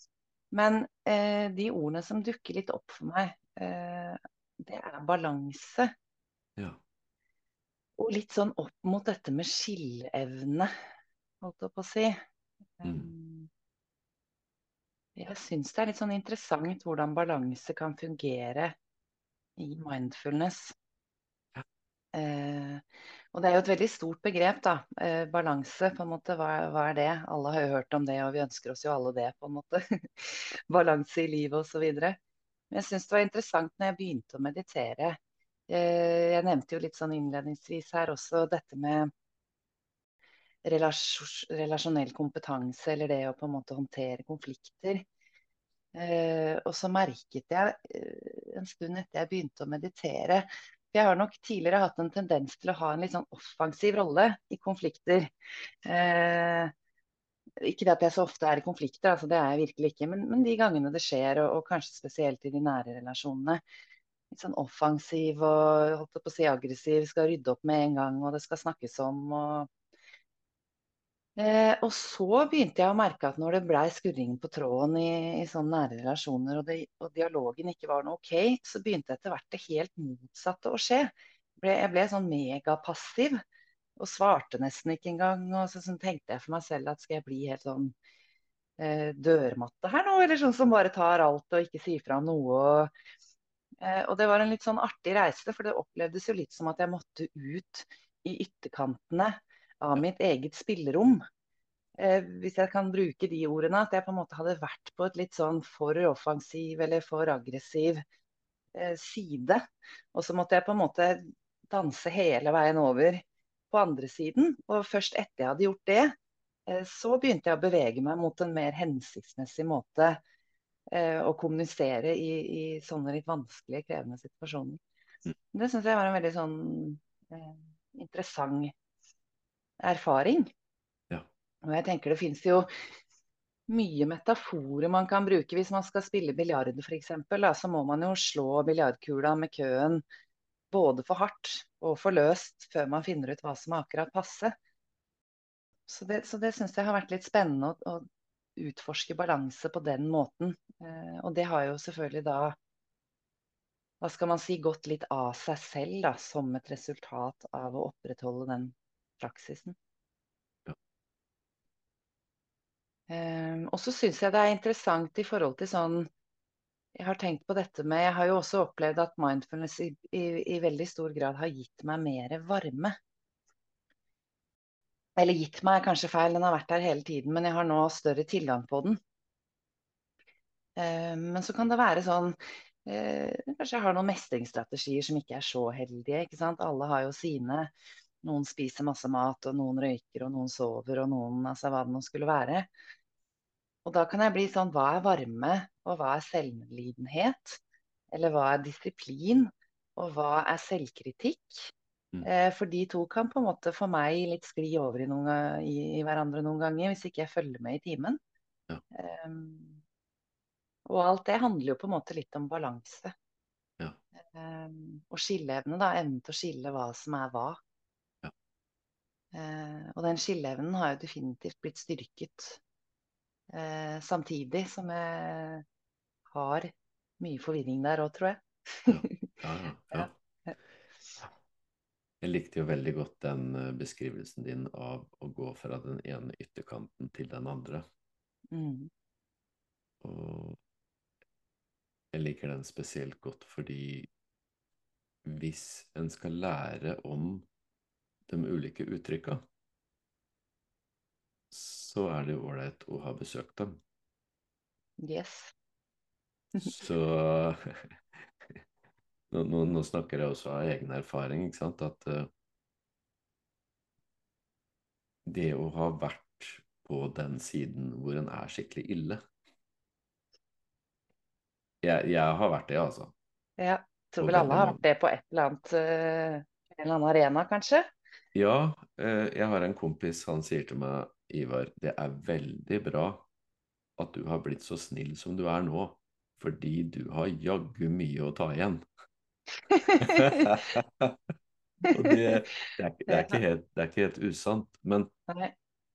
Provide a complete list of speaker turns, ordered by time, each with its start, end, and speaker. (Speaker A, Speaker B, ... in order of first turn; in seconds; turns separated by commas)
Speaker A: 0.5-5.9, Speaker A: 8.0-10.7, Speaker A: 11.4-12.2, Speaker A: 12.8-13.5, Speaker B: 12.8-13.1, Speaker A: 15.2-18.8, Speaker A: 19.6-20.7, Speaker A: 22.1-32.2, Speaker A: 32.7-35.2, Speaker A: 35.7-39.1, Speaker A: 40.6-45.0, Speaker A: 45.9-55.3, Speaker A: 55.8-56.7, Speaker A: 57.6-63.6, Speaker A: 64.3-69.7, Speaker A: 71.4-83.4, Speaker A: 84.0-87.9, Speaker A: 88.8-92.9, Speaker A: 93.8-101.2, Speaker A: 102.0-108.0, Speaker A: 108.7-109.6, Speaker A: 110.1-116.1, Speaker A: 116.7-120.2, Speaker A: 120.9-124.8, Speaker A: 125.5-128.7, Speaker A: 129.8-130.5, Speaker A: 131.6-132.7, Speaker A: 133.7-140.0, Speaker A: 140.7-144.5, Speaker A: 145.9-148.1, Speaker A: 148.6-152.6, Speaker A: 154.0-159.8, Speaker A: 163.1-166.1, Speaker A: 166.9-172.9, Speaker A: 175.2-179.0, Speaker A: 180.8-187.7, Speaker A: 188.2-192.7, Speaker A: 193.8-197.6, Speaker A: 198.1-201.7, Speaker A: 202.2-208.2, Speaker A: 208.9-209.8, Speaker A: 210.8-213.1, Speaker A: 214.3-217.6, Speaker A: 219.3-222.6, Speaker A: 223.5-225.6, Speaker A: 226.3-229.3, Speaker B: 228.9-230.1, Speaker A: 229.9-230.5, Speaker B: 232.2-237.8, Speaker A: 238.5-238.9, Speaker B: 240.0-240.6, Speaker B: 242.1-244.1, Speaker B: 245.2-247.4, Speaker B: 248.3-249.4, Speaker B: 251.5-253.8, Speaker A: 255.0-255.5, Speaker B: 256.6-258.6, Speaker B: 259.3-262.3, Speaker B: 265.2-269.2, Speaker B: 271.8-273.1, Speaker A: 273.6-277.9, Speaker B: 274.2-274.8, Speaker B: 278.3-283.2, Speaker B: 284.0-288.8, Speaker A: 289.7-290.6, Speaker B: 290.0-291.2, Speaker B: 291.9-295.1, Speaker A: 291.9-292.2, Speaker A: 293.1-293.4, Speaker A: 295.3-295.5